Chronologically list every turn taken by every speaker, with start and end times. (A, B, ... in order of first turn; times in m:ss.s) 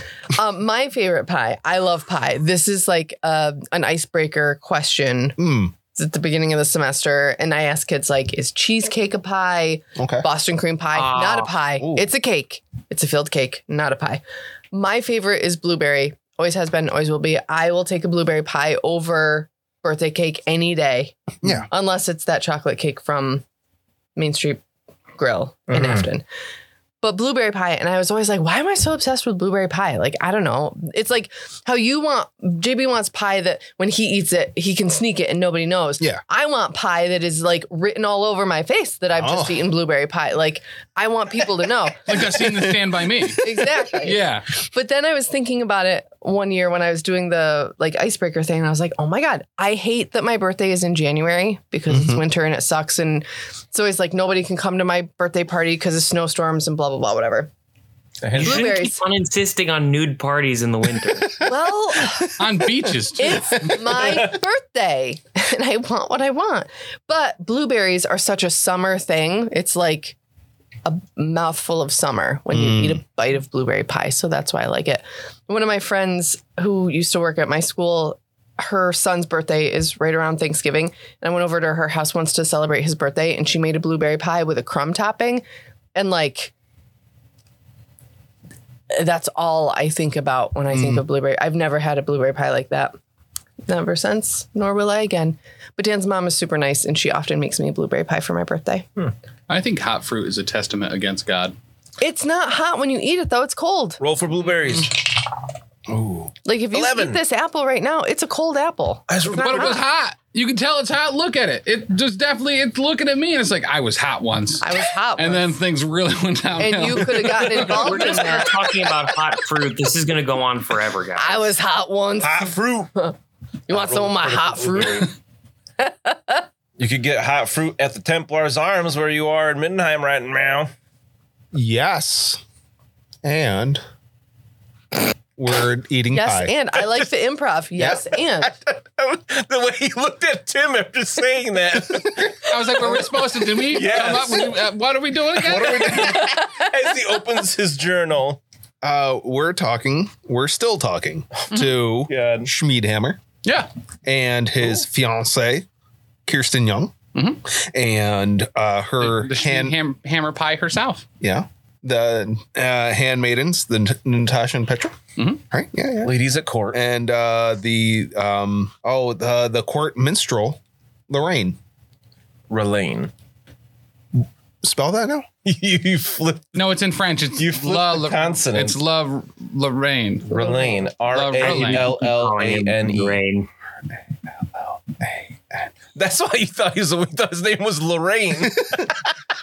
0:00.3-0:05.4 A
0:05.4-0:05.7 B
0:05.9-0:23.4 A
0:10.0-0:10.3 B
0:10.9-0:11.6 C
0:21.4-0:21.7 B
0:24.2-0:24.6 A
0:25.2-0:26.2 A
0:25.7-0:26.1 D
0:27.0-0:42.4 A
0:39.1-0:39.7 B
0:42.1-0:44.5 E
0:43.4-0:57.5 A
0:51.9-0:52.2 B
0:58.2-0:58.8 D
0:58.3-1:01.4 C
0:58.4-0:59.0 A
1:01.4-1:02.2 B
1:01.4-1:02.4 A
1:02.4-1:03.9 E
1:03.2-1:10.2 A
1:10.8-1:25.4 A
1:12.5-1:13.0 B
1:25.9-1:26.5 A
1:28.9-1:33.0 A
1:30.7-1:31.0 B
1:33.7-1:38.9 A
1:39.5-1:41.5 E
1:42.0-1:44.0 A
1:44.0-1:45.0 D
1:45.9-1:46.3 B
1:46.2-1:47.2 D
1:46.4-1:49.8 A
1:49.1-1:49.8 D
1:49.4-1:58.2 E
1:54.6-1:55.6 A
1:56.6-1:58.8 A
1:57.5-2:01.4 C
2:01.2-2:03.1 A
2:02.2-2:02.9 D
2:03.7-2:05.1 D
2:03.7-2:05.1 A
2:05.8-2:06.4 A
2:06.8-2:10.7 D
2:11.5-2:12.4 B
2:13.2-2:13.8 B
2:15.4-2:16.5 B
2:16.1-2:18.5 A
2:18.4-2:24.6 D
2:22.5-2:26.2 E
2:22.8-2:23.1 B
2:25.3-2:28.4 D
2:25.4-2:26.3 B
2:26.0-2:26.5 A
2:28.8-2:33.2 B
2:32.0-2:32.5 D
2:33.4-2:33.7 E
2:34.0-2:35.7 B
2:36.2-2:37.0 B
2:37.1-2:37.4 E
2:37.5-2:39.8 B
2:39.0-2:41.0 E
2:41.2-2:45.0 B
2:45.5-2:46.1 B
2:46.0-2:46.8 D
2:46.7-2:51.6 B
2:52.5-2:53.1 D
2:54.6-2:55.3 B
2:55.4-2:56.6 D
2:56.5-3:00.4 E
2:57.4-2:58.8 D
3:00.3-3:03.2 D
3:00.4-3:00.7 A
3:01.1-3:02.0 E
3:01.4-3:03.5 C
3:04.6-3:05.4 B
3:05.9-3:09.0 D